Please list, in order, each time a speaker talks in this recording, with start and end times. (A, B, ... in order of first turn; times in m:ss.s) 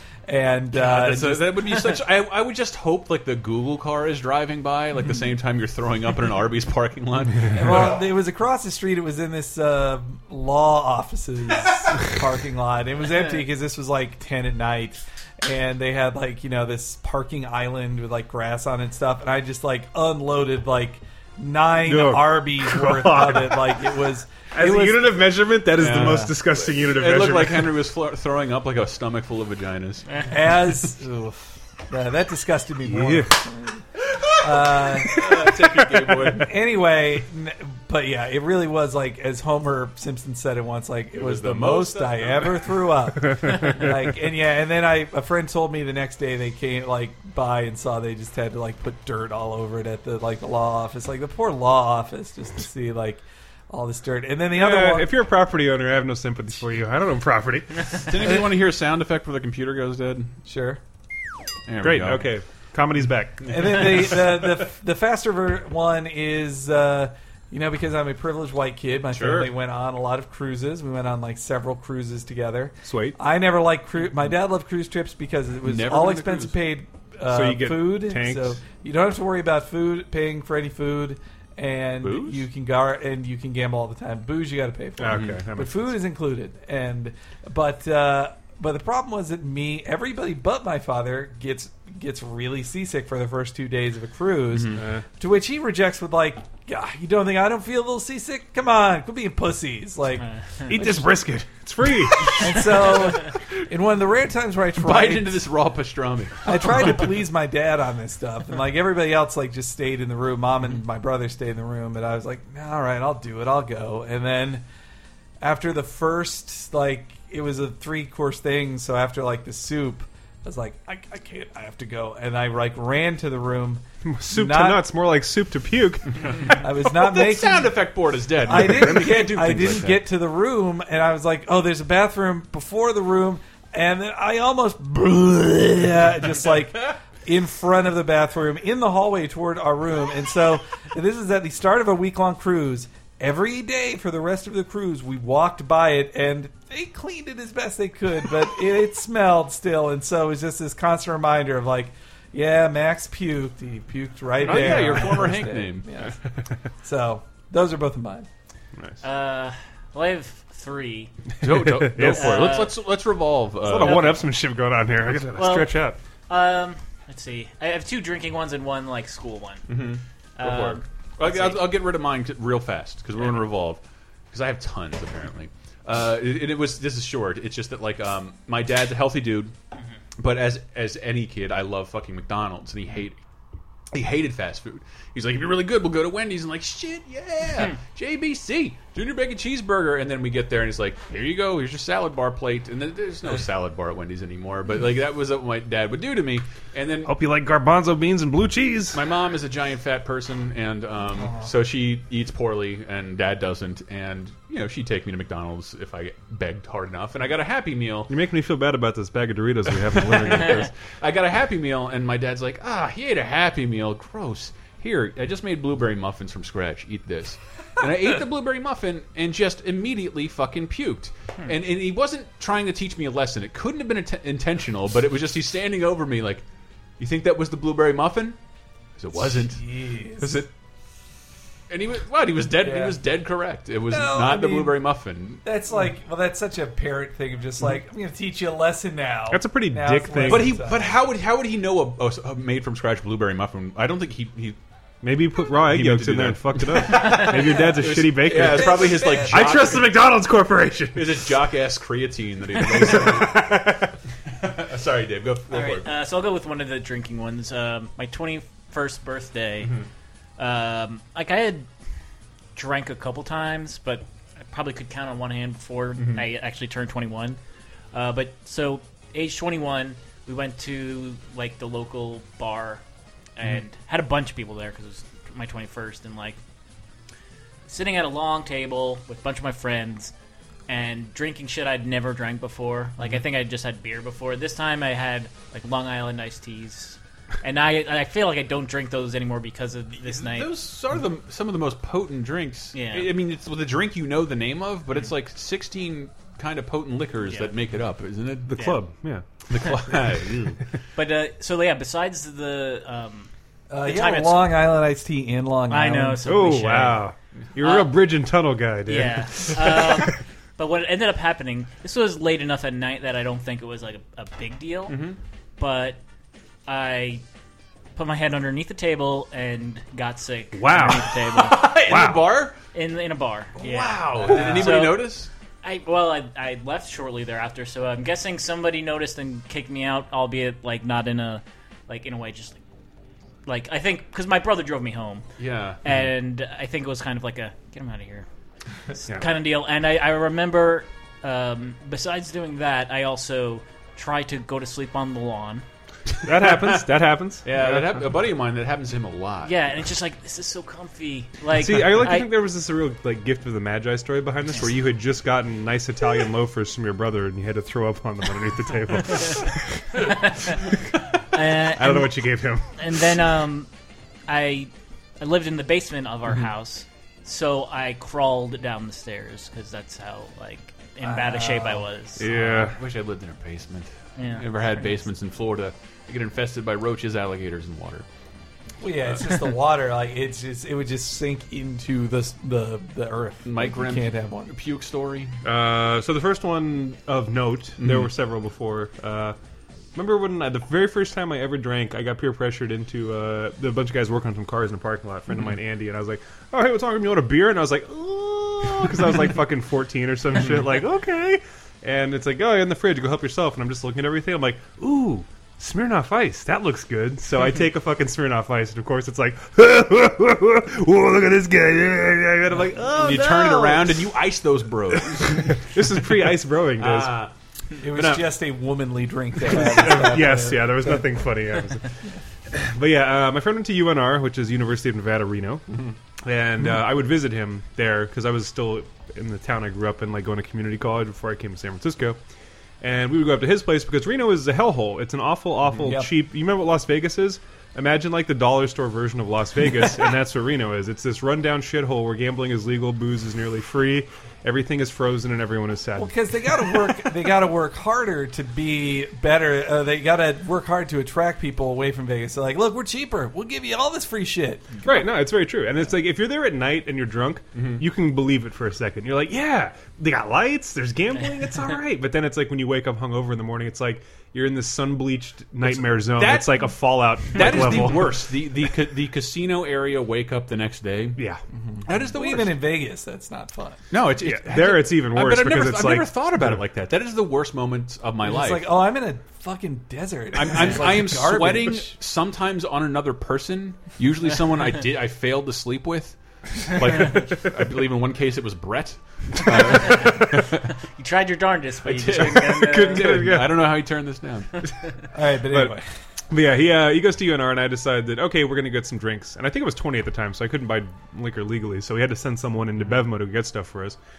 0:00.3-0:01.8 A
0:00.7-0:08.0 B
0:07.5-0:25.2 A
0:21.9-0:24.0 C
0:24.5-0:27.7 C
0:25.7-0:30.4 B
0:25.8-0:26.3 A
0:30.3-0:31.1 A
0:31.9-0:55.1 A
0:32.9-0:33.3 C
0:34.1-0:36.5 B
0:41.1-0:42.7 B
0:43.2-0:44.1 C
0:54.5-0:58.1 C
0:58.0-1:00.4 B
1:00.4-1:00.8 A
1:01.7-1:02.8 B
1:01.8-1:04.1 C
1:03.4-1:04.0 B
1:03.5-1:41.0 A
1:09.1-1:09.5 B
1:12.9-1:13.2 C
1:15.6-1:16.6 B
1:17.3-1:18.6 C
1:22.0-1:22.4 B
1:25.0-1:25.9 C
1:25.1-1:25.4 B
1:34.5-1:34.8 B
1:34.8-1:35.0 C
1:40.2-1:40.7 D
1:40.7-1:42.7 C
1:42.3-1:45.4 A
1:44.8-1:47.1 B
1:46.4-1:54.6 A
1:55.4-2:04.9 A
2:04.1-2:06.5 C
2:06.2-2:10.1 B
2:06.5-2:07.9 A
2:08.4-2:36.2 A
2:34.4-2:35.9 B
2:34.5-2:35.1 C
2:36.0-2:36.5 C
2:36.8-2:38.3 A
2:38.8-2:39.0 C
2:39.0-2:41.1 D
2:41.4-2:44.2 B
2:41.4-2:42.6 C
2:42.1-2:42.7 D
2:43.6-2:46.0 C
2:43.8-2:44.3 D
2:45.4-2:51.6 D
2:49.7-2:59.5 B
3:00.2-3:03.2 B
3:03.9-3:17.1 B
3:17.0-3:19.0 C
3:18.9-3:28.1 B
3:21.2-3:21.5 A
3:28.1-3:30.7 C
3:29.7-3:46.4 B
3:47.0-3:48.4 B
3:49.0-3:50.5 B
3:49.2-3:50.4 A
3:51.7-3:55.4 B
3:52.6-3:53.0 A
3:53.9-3:54.8 A
3:55.4-4:01.0 A
3:59.3-4:00.6 C
4:00.2-4:04.6 B
4:05.0-4:11.3 C
4:05.6-4:10.1 B
4:08.8-4:09.6 A
4:09.0-4:09.5 D
4:10.9-4:13.6 B
4:12.6-4:14.0 C
4:14.4-4:15.9 B
4:15.5-4:19.8 D
4:19.6-4:19.9 B
4:20.4-4:21.7 D
4:22.6-4:27.4 D
4:27.9-4:32.8 D
4:33.4-4:36.4 D
4:37.7-4:40.1 D
4:40.7-4:50.5 D
4:50.0-4:58.8 B
4:52.7-4:53.1 D
4:57.2-4:57.5 D
4:58.5-4:59.5 C
4:58.6-4:59.1 D
4:59.5-5:00.6 B
5:00.9-5:03.3 D
5:03.7-5:06.2 A
5:03.8-5:04.7 D
5:05.7-5:07.1 D
5:06.2-5:10.1 C
5:07.6-5:07.9 D
5:08.9-5:15.0 D
5:14.9-5:15.2 B
5:15.6-5:16.0 D
5:16.7-5:17.2 D
5:18.0-5:21.7 D
5:20.6-5:21.1 C
5:20.8-5:22.6 B
5:21.8-5:22.2 C
5:22.7-5:32.6 D
5:23.6-5:25.3 B
5:33.5-5:35.3 D
5:35.4-5:35.8 B
5:35.8-5:38.3 D
5:38.9-5:45.6 D
5:46.2-5:49.5 B
5:46.2-5:48.0 C
5:49.4-5:52.3 D
5:51.6-6:00.2 C
6:00.0-6:00.6 D
6:01.3-6:03.7 D
6:01.7-6:02.7 C
6:04.3-6:12.2 D
6:11.0-6:11.9 A
6:12.2-6:12.8 C
6:12.2-6:18.0 B
6:14.2-6:15.0 D
6:18.8-6:24.5 A
6:23.4-6:25.4 B
6:25.4-6:29.4 C
6:27.8-6:28.1 B
6:30.0-6:54.1 C
6:35.3-6:35.6 B
6:40.3-6:40.7 B
6:53.0-6:57.3 B
6:55.3-6:57.2 C
6:57.8-7:01.3 A
6:57.9-6:58.2 C
6:59.5-7:12.2 C
7:12.8-7:26.9 C
7:15.8-7:16.1 A
7:26.0-7:34.7 A
7:34.8-7:48.3 C
7:37.6-7:37.8 B
7:41.2-7:41.8 D
7:45.6-7:51.2 B
7:51.2-7:51.4 C
7:51.5-7:53.8 A
7:51.8-7:52.6 B
7:53.9-7:58.7 B
7:54.2-7:56.6 C
7:58.2-8:02.0 A
8:00.3-8:10.6 B
8:11.0-8:13.1 D
8:11.8-8:14.7 B
8:12.2-8:13.6 C
8:15.1-8:16.0 A
8:16.3-8:24.0 C